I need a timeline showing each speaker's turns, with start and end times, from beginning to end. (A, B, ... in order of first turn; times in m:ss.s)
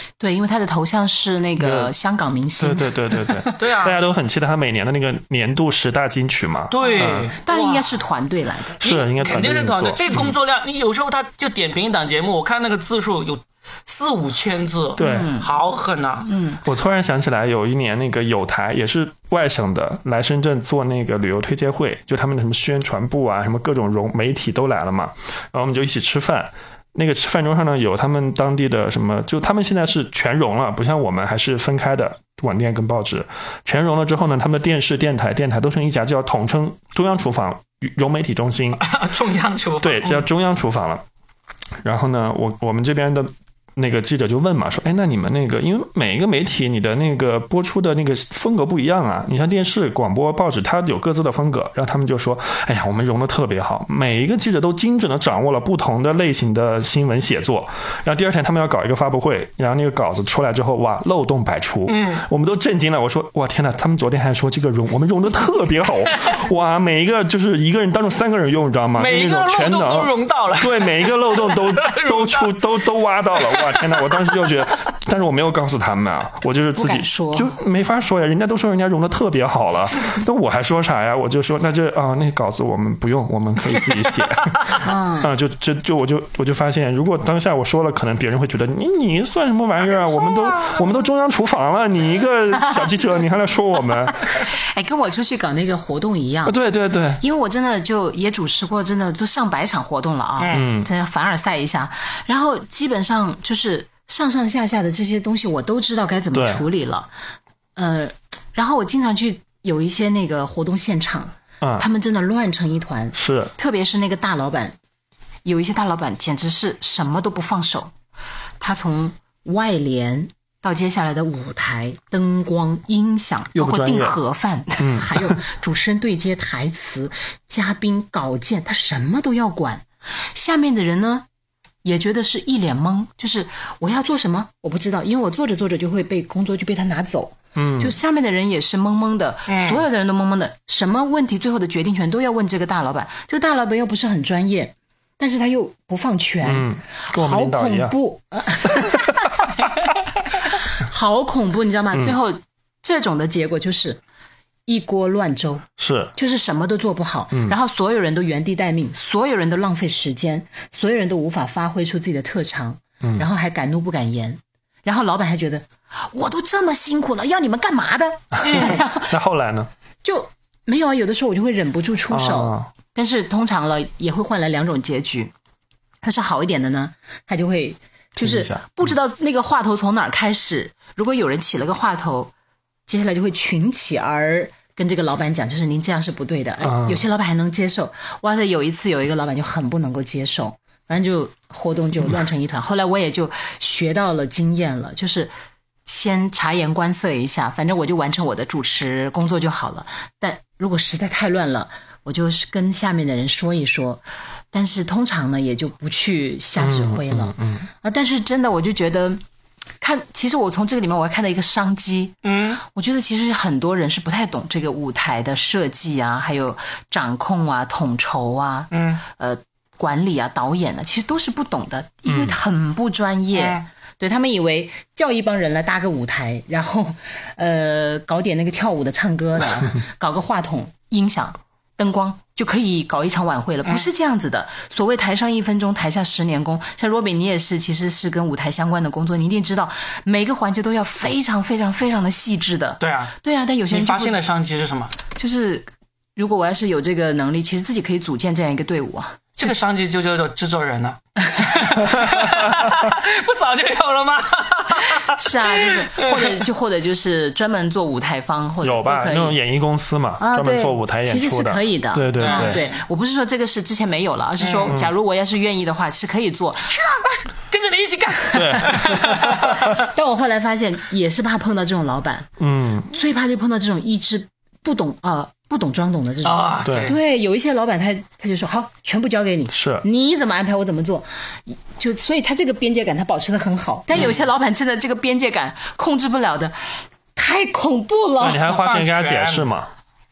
0:00.2-0:03.6 A
0:01.6-0:01.9 B
0:02.6-0:07.3 B
0:03.6-0:04.0 C
0:06.7-0:08.0 C
0:06.8-0:08.8 A
0:08.8-0:10.3 B
0:08.8-0:16.3 C
0:15.0-0:15.3 B
0:15.0-0:15.5 A
0:16.2-0:16.6 A
0:16.6-0:38.8 B
0:38.8-0:40.2 C
0:39.8-0:41.0 B
0:41.8-1:34.3 B
1:01.9-1:02.2 C
1:09.0-1:12.6 C
1:13.3-1:14.5 C
1:16.8-1:17.6 A
1:24.8-1:25.3 A
1:32.6-1:32.9 A
1:34.2-1:36.6 A
1:36.4-1:37.2 B
1:37.2-1:47.1 A
1:40.4-1:40.7 C
1:40.5-1:40.9 B
1:46.3-1:46.6 B
1:47.8-1:54.8 A
1:51.6-1:51.8 B
1:53.1-1:53.5 B
1:55.4-1:57.9 A
1:58.6-2:11.2 A
2:03.5-2:04.2 B
2:04.8-2:05.4 B
2:11.8-2:29.5 A
2:17.6-2:18.0 B
2:19.5-2:19.8 C
2:26.4-2:27.9 B
2:30.3-2:34.0 A
2:34.7-2:49.2 A
2:35.8-2:36.1 B
2:48.4-2:48.8 C
2:48.5-2:49.7 B
2:50.0-2:55.3 A
2:52.1-2:52.7 B
2:56.0-3:02.3 A
2:58.2-2:58.9 B
3:02.9-3:15.3 A
3:06.6-3:07.0 B
3:15.8-3:29.2 A
3:26.6-3:27.6 B
3:29.8-4:04.2 A
3:32.2-3:32.6 C
3:38.7-3:39.0 C
3:42.1-3:42.3 B
3:43.3-3:43.6 C
4:02.8-4:03.1 C
4:03.7-4:04.9 C
4:05.2-4:09.3 A
4:09.4-4:16.4 C
4:12.0-4:12.3 B
4:15.0-4:19.4 A
4:18.6-4:22.6 B
4:20.2-4:26.8 A
4:22.1-4:22.8 C
4:24.4-4:24.7 C
4:26.8-4:29.8 C
4:28.3-4:29.3 B
4:29.6-4:32.3 A
4:32.4-4:32.9 B
4:32.9-4:48.4 A
4:36.2-4:37.0 C
4:36.6-4:36.9 B
4:39.5-4:39.8 B
4:48.2-4:49.7 B
4:48.2-4:49.5 C